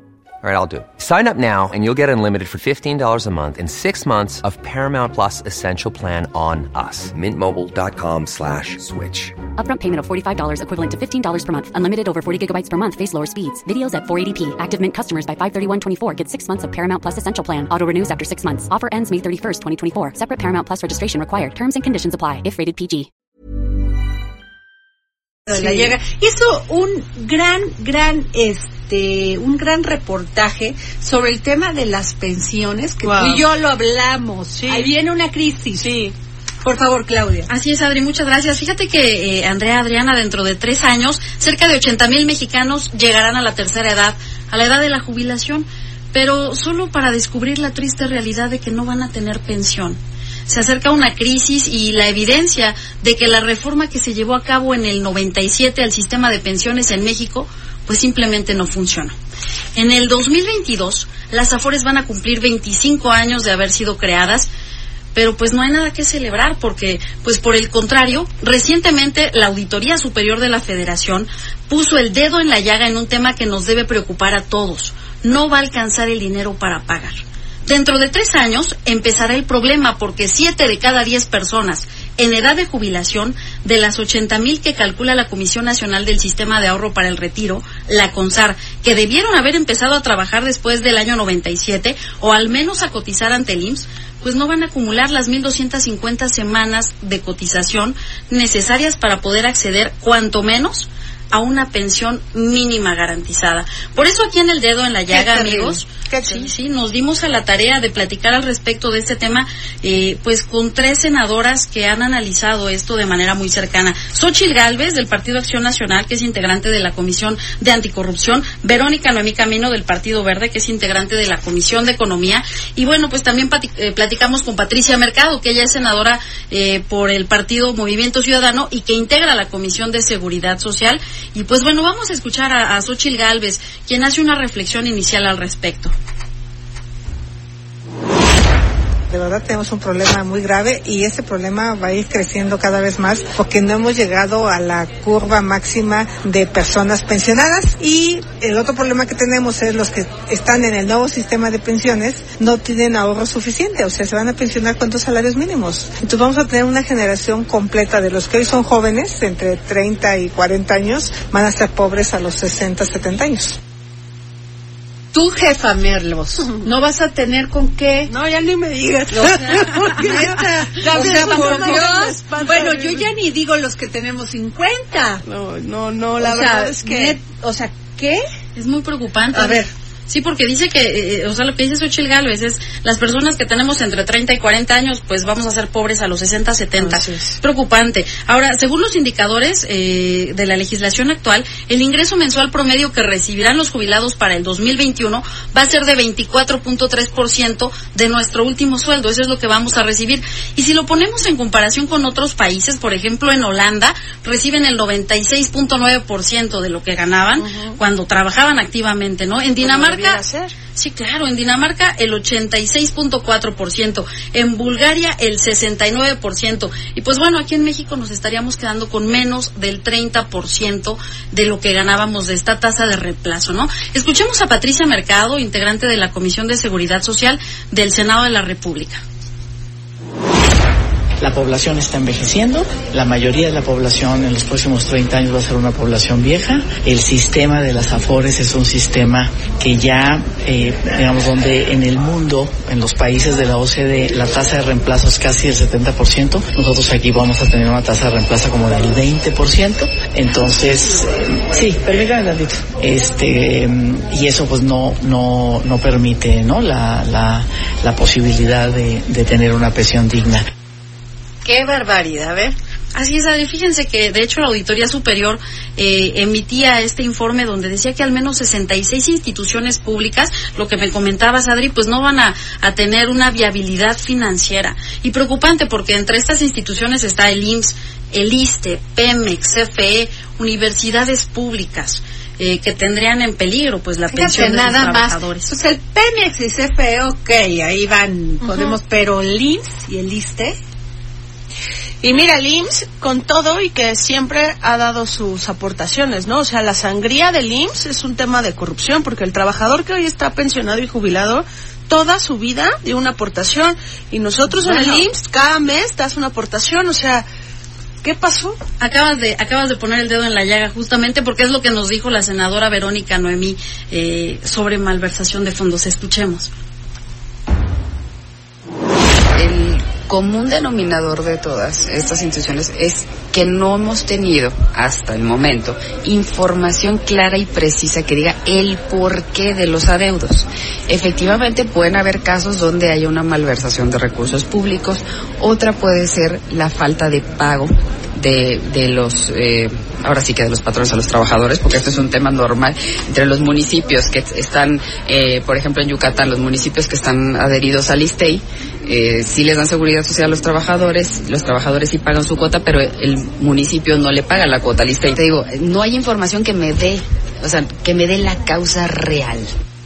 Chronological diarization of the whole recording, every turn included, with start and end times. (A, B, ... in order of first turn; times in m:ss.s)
0:00.4-0:09.3 A
0:09.6-0:23.1 B
0:25.5-0:35.8 C
0:25.5-0:25.9 D
0:33.0-0:33.5 D
0:34.5-0:34.9 D
0:35.7-0:36.1 D
0:36.6-0:37.5 C
0:37.5-0:59.1 E
0:59.8-1:04.5 E
1:05.1-2:15.9 E
1:45.2-1:45.6 F
2:19.1-2:43.6 F
2:45.1-2:48.1 C
2:48.1-2:53.1 D
2:49.1-2:55.2 C
2:55.2-2:57.2 D
2:56.2-2:58.2 C
2:58.6-3:30.2 E
2:59.4-2:59.7 D
3:06.8-3:07.4 D
3:27.4-3:27.8 D
3:29.6-3:30.5 D
3:30.7-3:49.0 E
3:51.2-4:20.4 G
4:21.4-4:22.6 C
4:22.9-4:45.5 E
4:44.1-4:50.6 C
4:52.0-5:07.2 D
5:08.0-5:08.6 D
5:08.8-5:16.5 E
5:19.3-5:59.5 H